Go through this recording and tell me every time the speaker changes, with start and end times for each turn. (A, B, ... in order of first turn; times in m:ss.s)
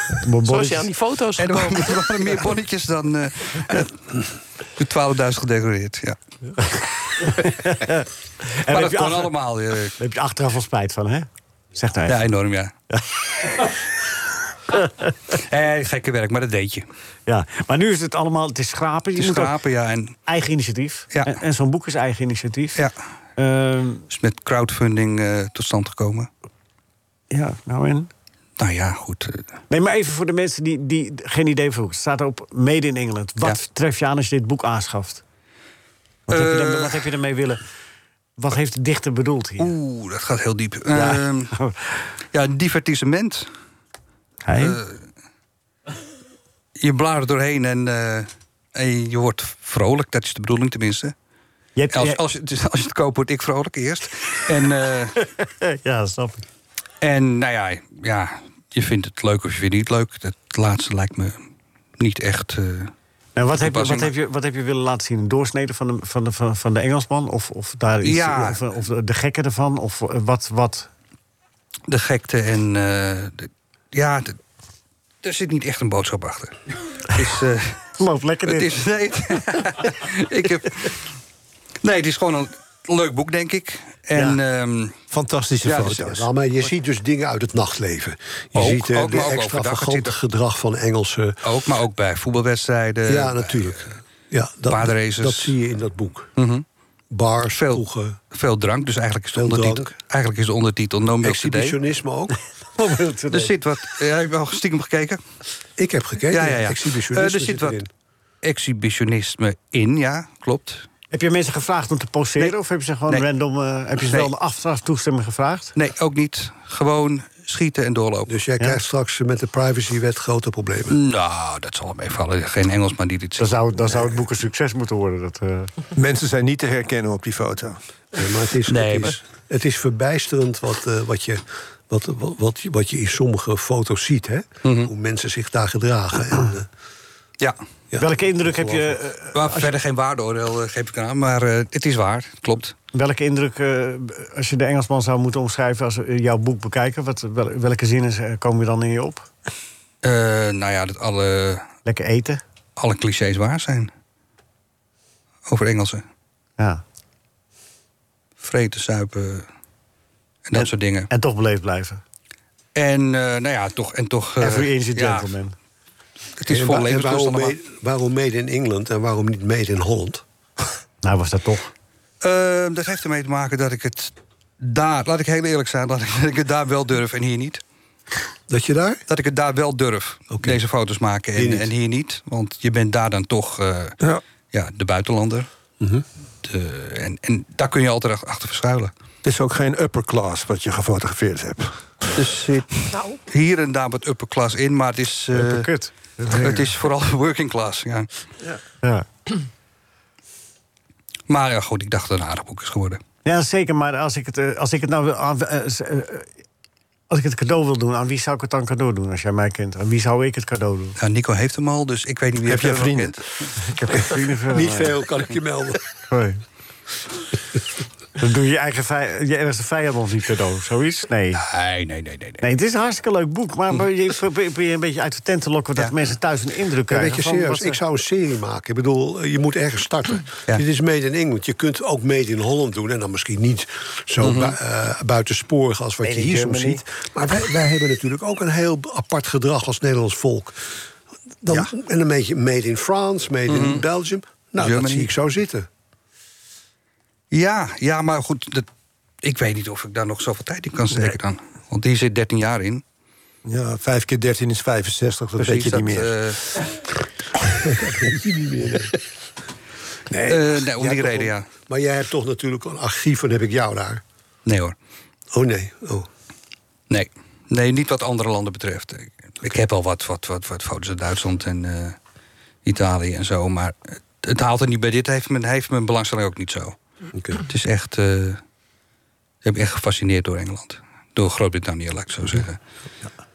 0:00.2-0:00.9 A
0:00.4-0:02.1 B
0:01.4-0:04.0 C
0:04.8-0:06.2 C
0:06.6-0:09.3 A
0:08.7-0:09.9 C
0:10.0-0:12.2 A
0:12.1-0:12.7 C
0:14.8-0:15.0 A
0:15.3-0:16.9 C
0:17.3-0:19.6 A
0:19.2-0:20.2 C
0:20.3-0:22.8 A
0:23.4-0:24.0 A
0:24.1-0:26.3 C
0:27.3-0:28.1 A
0:28.6-0:29.4 C
0:29.7-0:35.2 A
0:36.3-0:37.6 A
0:36.3-0:37.0 C
0:38.4-0:39.7 A
0:39.6-0:41.5 C
0:40.9-0:41.8 A
0:42.3-0:43.5 C
0:44.4-0:44.8 A
0:44.6-0:45.0 C
0:46.8-0:51.1 C
0:51.8-0:52.2 A
0:51.9-0:55.2 C
0:55.4-0:56.5 A
0:57.0-1:01.4 C
1:02.0-1:02.9 C
1:03.4-1:10.9 A
1:03.6-1:04.1 C
1:08.0-1:08.6 C
1:11.9-1:14.4 C
1:15.2-1:17.8 C
1:18.0-1:18.7 A
1:18.5-1:21.0 C
1:21.8-1:25.0 C
1:24.1-1:24.4 A
1:25.1-1:26.3 D
1:25.6-1:26.0 C
1:26.0-1:31.4 E
1:28.6-1:30.1 C
1:31.4-1:33.8 C
1:33.1-1:36.3 E
1:34.7-1:35.6 C
1:36.4-1:36.6 C
1:37.1-1:38.2 E
1:37.5-1:41.8 C
1:39.3-1:40.0 E
1:41.2-1:42.4 E
1:42.8-1:43.4 A
1:43.3-1:45.2 C
1:45.8-1:47.9 E
1:46.3-1:47.8 C
1:48.4-1:50.9 C
1:51.1-1:55.7 A
1:54.0-1:54.3 C
1:55.8-1:58.3 C
1:58.3-2:01.0 E
2:00.9-2:04.1 C
2:03.4-2:05.7 A
2:05.9-2:07.8 D
2:08.1-2:16.7 E
2:08.7-2:09.2 C
2:14.6-2:14.9 C
2:17.9-2:18.9 E
2:18.0-2:19.7 A
2:19.3-2:22.8 C
2:22.9-2:29.3 A
2:30.0-2:31.7 C
2:31.8-2:32.4 A
2:32.8-2:33.9 C
2:35.5-2:36.0 C
2:36.6-2:36.8 A
2:38.4-2:39.5 C
2:40.5-2:41.1 C
2:40.6-2:42.0 A
2:42.8-2:45.3 C
2:44.4-2:45.6 A
2:46.4-2:47.6 C
2:46.5-2:50.2 E
2:51.0-2:51.7 A
2:52.2-2:57.6 C
2:58.5-2:59.0 E
2:59.1-3:04.0 C
3:00.3-3:00.6 E
3:01.4-3:01.7 E
3:04.5-3:05.5 C
3:06.4-3:08.9 C
3:09.2-3:11.9 D
3:12.1-3:15.7 C
3:12.9-3:13.2 B
3:15.3-3:16.7 A
3:16.2-3:18.1 C
3:18.8-3:19.1 A
3:21.3-3:23.0 C
3:23.2-3:26.3 A
3:27.1-3:31.0 A
3:31.0-3:33.4 C
3:32.4-3:33.2 D
3:33.7-3:35.0 A
3:34.5-3:35.8 E
3:36.1-3:36.4 A
3:38.2-3:41.4 A
3:41.4-3:42.4 C
3:42.4-3:47.8 A
3:46.9-4:00.6 E
3:54.2-3:54.6 C
3:56.0-3:56.8 A
4:01.4-4:05.7 E
4:03.5-4:03.9 C
4:04.6-4:05.1 C
4:07.3-4:08.7 C
4:09.2-4:12.8 C
4:13.4-4:16.2 D
4:15.4-4:16.4 C
4:17.7-4:18.9 E
4:20.1-4:24.0 E
4:20.3-4:21.5 C
4:24.5-4:24.8 C
4:25.3-4:26.1 E
4:26.9-4:32.0 C
4:32.6-4:36.8 C
4:37.2-4:37.4 E
4:37.4-4:38.4 C
4:39.4-4:42.6 C